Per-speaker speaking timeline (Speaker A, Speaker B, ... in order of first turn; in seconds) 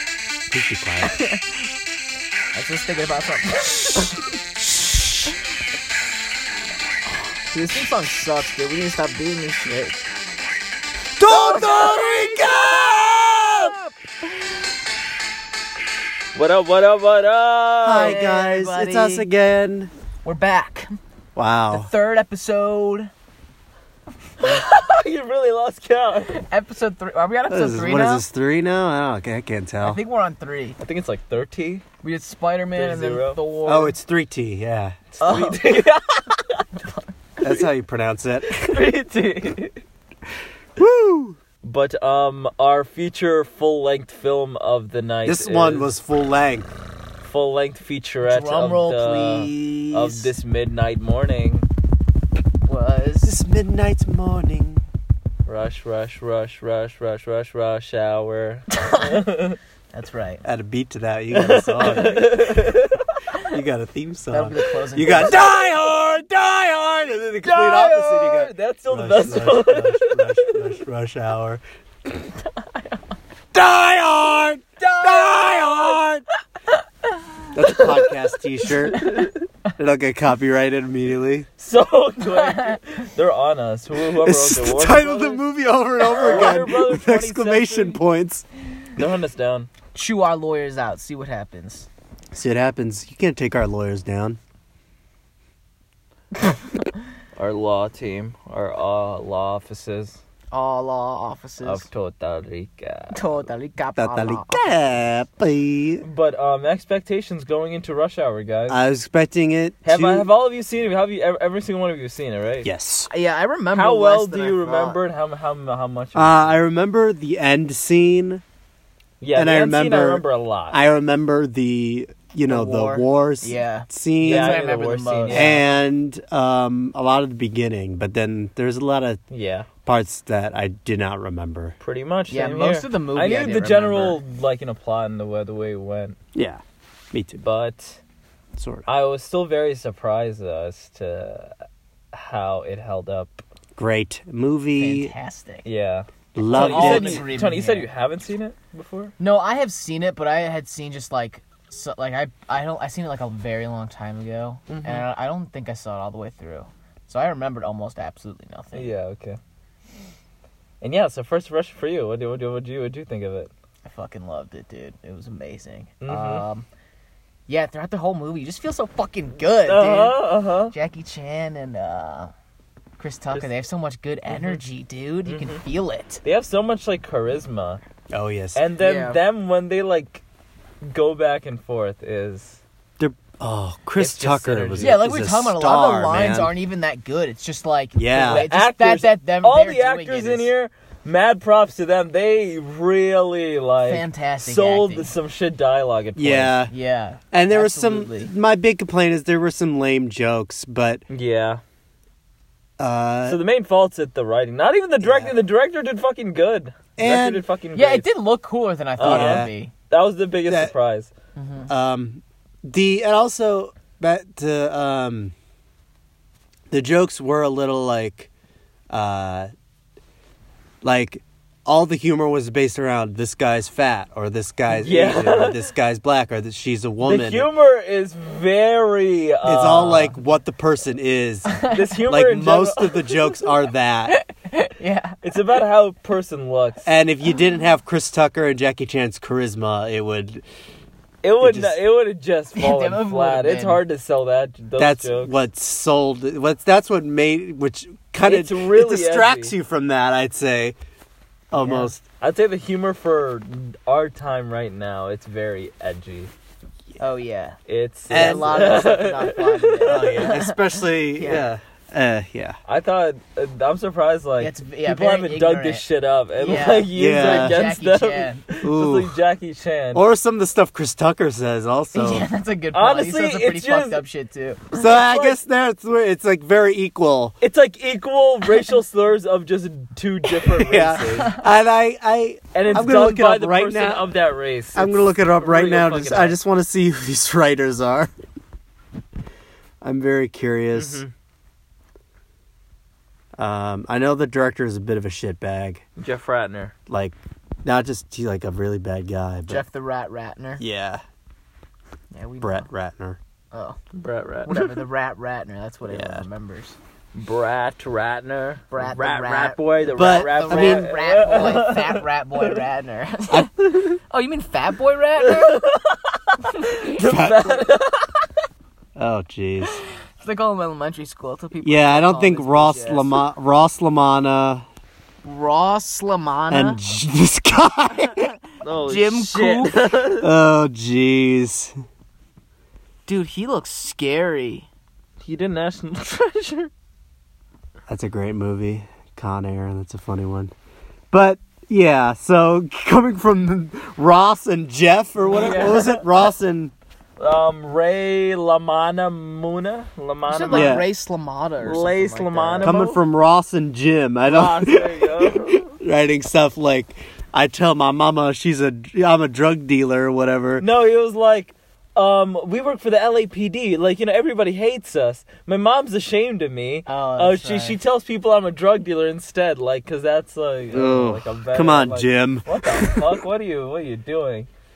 Speaker A: 0.5-1.1, 11.2-13.8, 17.8-19.9, 21.4-21.9, 27.5-30.0, 33.6-35.0, 37.4-38.9, 40.8-41.4, 45.2-46.7, 53.2-54.8, 60.4-62.3, 63.4-72.1, 73.5-76.2, 77.5-79.1, 79.8-81.5, 84.1-88.5, 92.3-94.4, 104.0-106.0, 108.7-110.3, 112.6-113.1, 116.1-118.4, 119.3-124.6, 125.3-129.2, 129.8-131.7, 136.3-137.4, 138.6-138.9, 143.8-145.1, 146.3-147.2, 178.1-178.6, 183.0-186.5, 187.9-188.5, 196.2-196.7, 197.3-201.0, 202.8-203.4, 205.0-205.3, 206.9-207.4, 209.0-209.5, 210.5-210.7, 211.7-215.3, 216.7-218.3, 218.9-219.5, 220.8-227.5, 229.4-234.2, 236.8-240.4, 241.4-241.8, 244.8-250.7, 251.5-252.0, 258.1-258.8, 259.8-262.6, 266.9-267.6, 268.6-269.1, 269.9-272.2, 274.7-277.4, 280.3-284.0, 284.7-288.1, 289.8-291.0, 293.4-295.8, 296.9-299.6, 300.6-301.0, 302.4-303.2, 305.9-306.2, 309.9-310.9, 316.9-317.6, 318.9-319.8, 321.6-324.7, 326.5-328.3, 330.2-331.7, 337.9-340.5, 341.1-346.7, 350.5-350.9, 352.6-360.6, 370.7-372.8
Speaker B: 1.0-1.5, 2.5-4.2, 7.4-10.1, 11.3-12.9, 17.9-19.3, 20.2-20.9, 21.7-23.1, 26.3-28.2, 29.8-30.8, 32.0-34.0, 35.2-36.3, 48.2-50.3, 52.6-53.4, 58.7-59.2, 59.9-60.4, 64.3-65.5, 74.8-75.7, 82.4-82.7, 89.9-91.9, 100.5-101.8, 103.1-104.7, 113.1-115.0, 122.5-125.6, 132.3-134.2, 144.8-145.6, 146.5-147.9, 149.2-158.9, 163.8-166.7, 167.5-172.3, 173.0-176.2, 178.8-179.2, 184.8-190.5, 193.8-195.1, 196.7-198.3, 207.7-209.7, 211.3-211.7, 234.1-235.2, 242.6-243.8, 251.5-251.9, 257.0-257.6, 258.1-261.5, 264.4-265.8, 266.4-268.4, 271.9-274.7, 299.5-300.6, 302.1-302.7, 303.5-303.8, 304.4-306.8, 308.7-315.7, 319.6-323.2, 325.2-326.8, 327.9-329.9, 333.1-334.7, 350.3-352.8, 366.9-367.8
Speaker C: 16.3-18.2, 24.4-26.4, 30.8-31.9, 32.7-33.4, 35.2-36.6, 38.5-39.8, 41.6-45.9, 47.2-51.7, 55.5-59.6, 61.3-63.2, 67.4-70.8, 78.9-79.4, 81.6-85.4, 86.1-88.0, 89.0-89.7, 97.3-100.2, 101.6-103.4, 106.0-108.8, 109.8-112.7, 113.7-116.6, 119.2-120.8, 124.2-125.6, 129.3-129.7, 131.8-136.2, 137.4-138.0, 138.9-141.5, 142.1-143.4, 145.6-149.1, 154.7-155.1, 158.7-159.4, 160.8-163.5, 166.0-166.4, 169.6-170.7, 174.3-174.6, 175.2-175.6, 176.2-177.8, 178.5-180.2, 180.8-182.6, 184.0-185.0, 188.2-196.6, 201.1-201.6, 203.2-208.0, 209.0-211.1, 224.8-225.7, 227.0-230.2, 231.6-233.4, 235.2-236.9, 241.2-245.3, 248.2-249.5, 252.2-256.3, 257.7-260.1, 262.7-270.0, 272.7-274.0, 274.7-275.4, 277.4-281.4, 282.5-286.4, 290.7-291.1, 296.0-296.7, 303.9-304.8, 307.1-312.1, 315.2-318.1, 328.6-330.3, 335.2-336.7, 345.3-346.1, 347.2-350.8, 351.6-353.0, 354.2-355.7, 360.6-374.5